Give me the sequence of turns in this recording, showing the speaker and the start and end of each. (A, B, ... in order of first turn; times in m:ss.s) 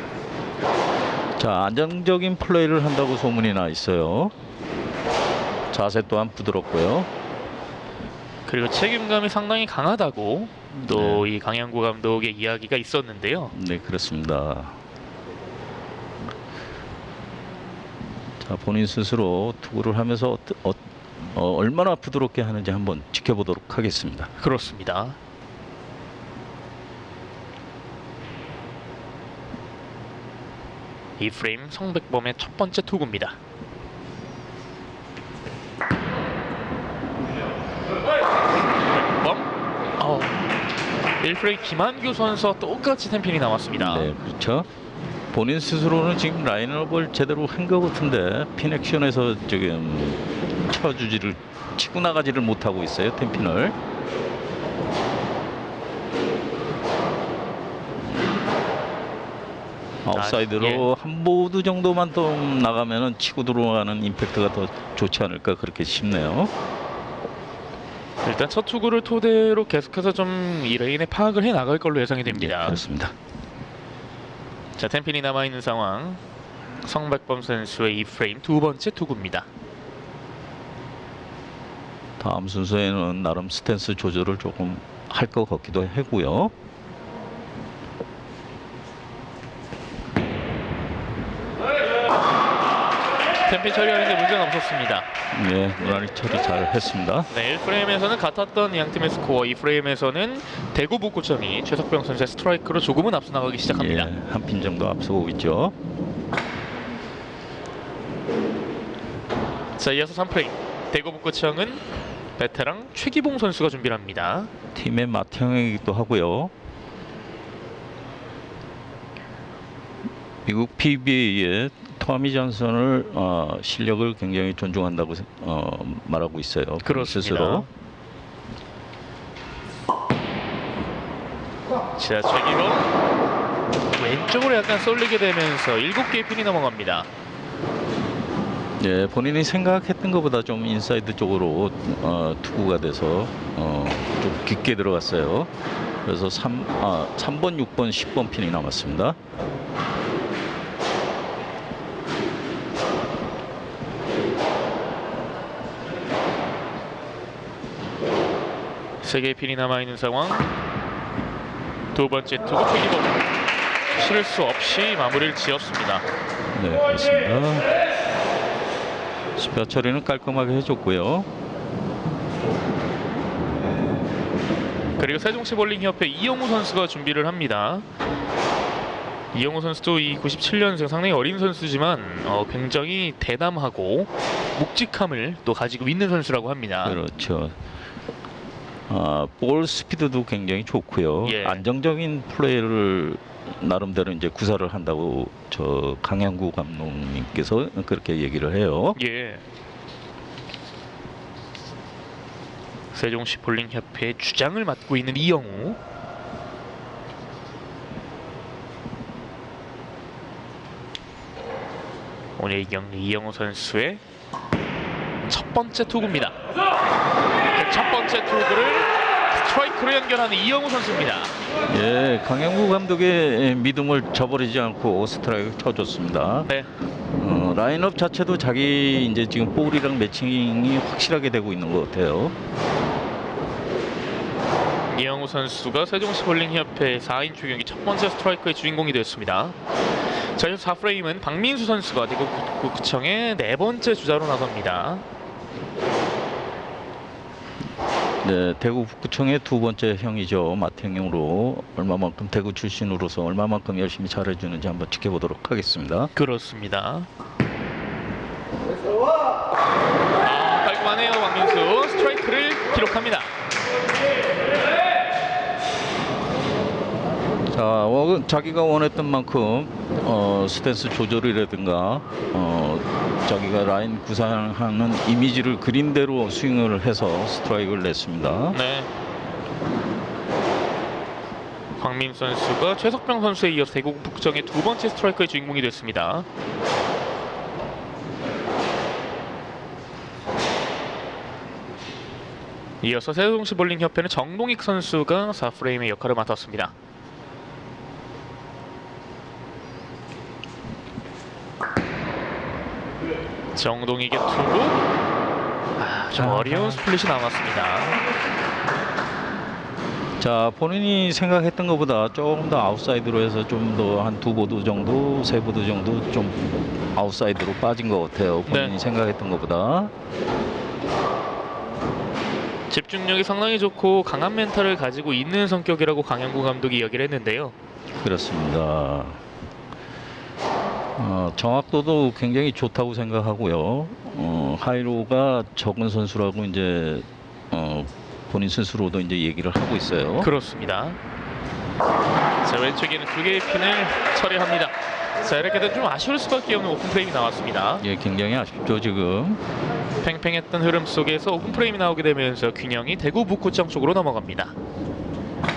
0:01.4-0:04.3 A
0:05.7-0:07.1 A
0:08.5-0:13.5 B
0:10.8-0:11.3 A
0:13.5-0:14.8 A
0:18.4-0:24.3 A
0:24.4-0:25.2 B
0:31.2-0:33.4 B
0:38.7-0:40.5 B
0:41.2-0:44.1 B
0:43.8-0:44.7 A
0:45.3-0:53.8 A
1:00.0-1:06.5 A
1:00.1-1:00.9 B
1:08.2-1:12.8 B
1:12.3-1:13.1 A
1:14.8-1:16.2 B
1:16.8-1:19.5 B
1:22.2-1:26.5 A
1:33.4-1:35.1 B
1:35.3-1:37.3 A
1:37.3-1:44.1 B
1:43.7-1:45.8 A
1:49.8-1:51.8 B
1:52.4-1:54.5 B
1:54.7-1:56.5 A
2:00.5-2:07.7 A
2:06.8-2:07.7 B
2:12.0-2:12.9 B
2:13.9-2:17.1 B
2:18.8-2:25.5 A
2:26.0-2:29.2 A
2:39.0-2:40.5 B
2:41.9-2:43.2 B
2:43.9-2:46.0 B
2:46.5-2:47.7 A
2:49.3-2:51.3 A
2:55.0-2:57.8 B
2:59.3-3:07.0 B
3:06.8-3:07.6 A
3:08.9-3:19.0 A
3:11.2-3:11.6 B
3:19.0-3:19.4 B
3:22.9-3:25.8 B
3:32.4-3:34.0 B
3:35.3-3:36.4 B
3:37.5-3:41.3 B
3:41.7-3:46.5 A
3:47.1-3:52.3 A
3:54.9-3:59.6 B
4:00.2-4:05.0 B
4:08.2-4:16.1 A
4:16.2-4:17.1 B
4:20.2-4:23.3 B
4:27.5-4:38.6 A
4:38.5-4:38.9 B
4:41.8-4:46.3 B
4:52.8-4:56.7 B
5:03.6-5:04.8 B
5:05.8-5:08.0 B
5:06.1-5:06.8 A
5:10.2-5:19.9 A
5:18.5-5:18.8 B
5:22.7-5:27.5 B
5:28.0-5:29.2 A
5:31.0-5:40.3 A
5:40.2-5:41.0 B
5:42.4-5:47.8 B
5:47.8-5:49.4 A
5:50.0-5:54.6 B